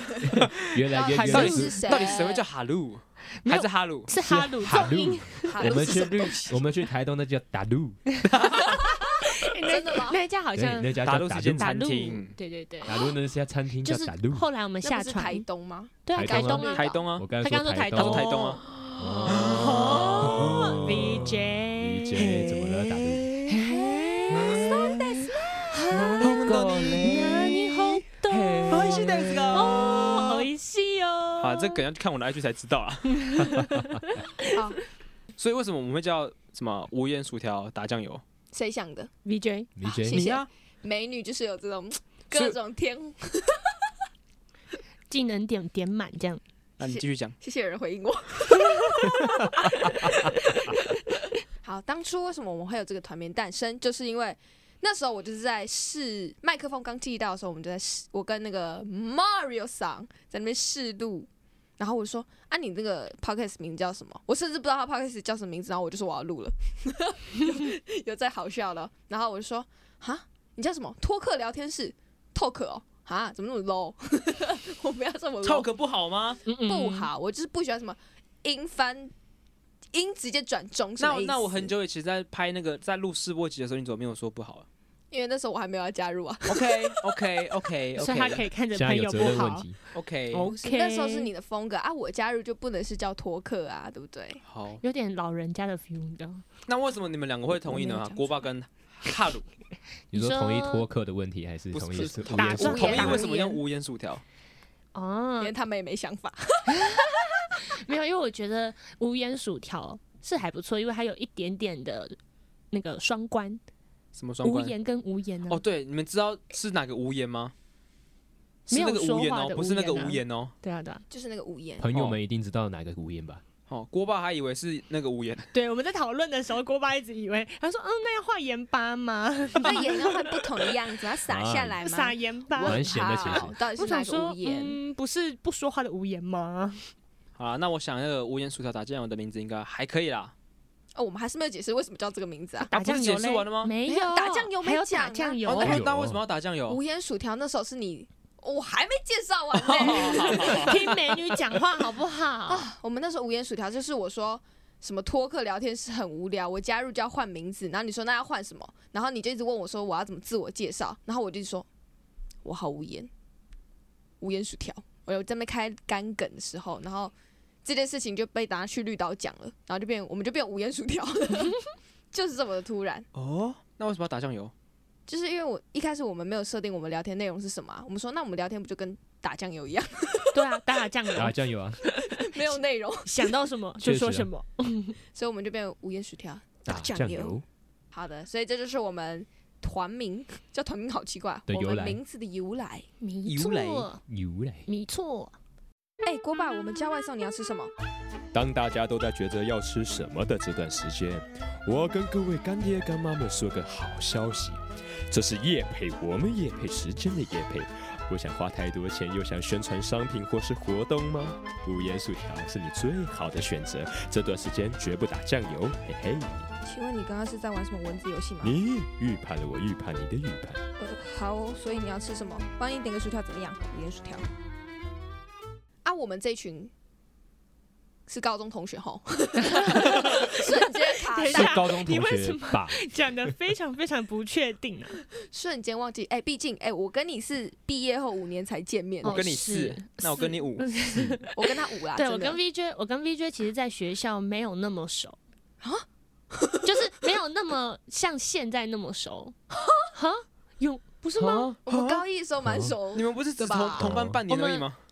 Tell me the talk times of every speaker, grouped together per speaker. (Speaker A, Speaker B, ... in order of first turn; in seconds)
Speaker A: 0.2-2.0, 4.2-8.0, 10.5-11.7, 12.8-14.4, 16.1-18.4, 18.9-23.3, 24.4-24.8, 25.9-27.7, 28.3-29.6, 39.8-40.2, 88.7-89.8, 100.1-103.2, 121.8-123.4, 131.3-131.8, 132.6-133.5, 145.5-146.2, 181.1-181.8, 183.8-184.3, 186.7-187.4, 191.5-192.0, 194.1-194.7, 198.3-216.5, 218.4-220.6, 231.3-232.8, 252.4-252.8, 253.8-254.2
Speaker B: 0.3-4.1, 8.2-8.8, 11.0-12.3, 16.7-17.3, 17.9-18.6, 19.4-20.5, 26.2-27.5, 28.6-30.4, 31.4-33.6, 35.4-38.2, 40.1-40.5, 42.3-42.5, 46.8-47.3, 75.4-76.4, 81.0-84.7, 86.5-88.4, 89.9-90.5, 94.4-94.8, 96.7-99.5, 101.7-104.2, 114.1-114.7, 115.5-117.5, 118.7-120.5, 121.9-122.2, 123.7-125.5, 137.4-140.3, 142.7-143.7, 145.4-146.8, 149.5-150.8, 173.1-174.5, 193.2-193.9, 239.1-240.7, 251.2-252.0, 252.9-254.8
Speaker C: 0.9-2.4, 5.5-6.6, 9.6-10.2, 14.8-17.0, 23.6-25.4, 34.5-34.8, 38.5-39.1, 39.8-43.7, 46.8-50.9, 51.6-75.7, 76.6-79.1, 79.9-81.7, 85.1-86.9, 90.4-94.4, 102.5-103.4, 105.4-107.4, 121.1-121.9, 129.6-134.8, 140.9-142.7, 143.8-145.8, 146.7-150.9, 152.5-161.7, 162.4-163.1, 164.2-167.1, 167.6-173.1, 175.1-180.4, 182.1-183.3, 185.1-187.4, 187.9-192.9, 196.0-197.7, 216.6-218.6, 220.8-224.3, 225.8-226.7, 228.1-231.7, 235.2-239.2, 241.3-242.4, 245.6-246.8, 251.7-253.9
Speaker D: 3.4-5.9, 8.5-11.0, 11.6-13.1, 13.8-15.4, 16.1-18.6, 19.3-24.9, 25.6-31.8, 33.1-34.7, 39.2-39.7, 45.1-46.4, 76.5-77.1, 88.0-89.8, 90.3-91.3, 94.8-96.4, 97.6-98.3, 100.1-100.8, 102.2-103.6, 104.9-105.5, 106.7-112.2, 112.7-113.6, 114.4-115.6, 118.7-121.0, 125.5-130.7, 131.8-136.8, 142.6-145.8, 150.1-152.7, 180.3-185.0, 193.0-194.0, 194.7-195.3, 229.4-235.0, 239.0-245.2, 246.6-249.3, 249.9-251.5, 254.3-254.7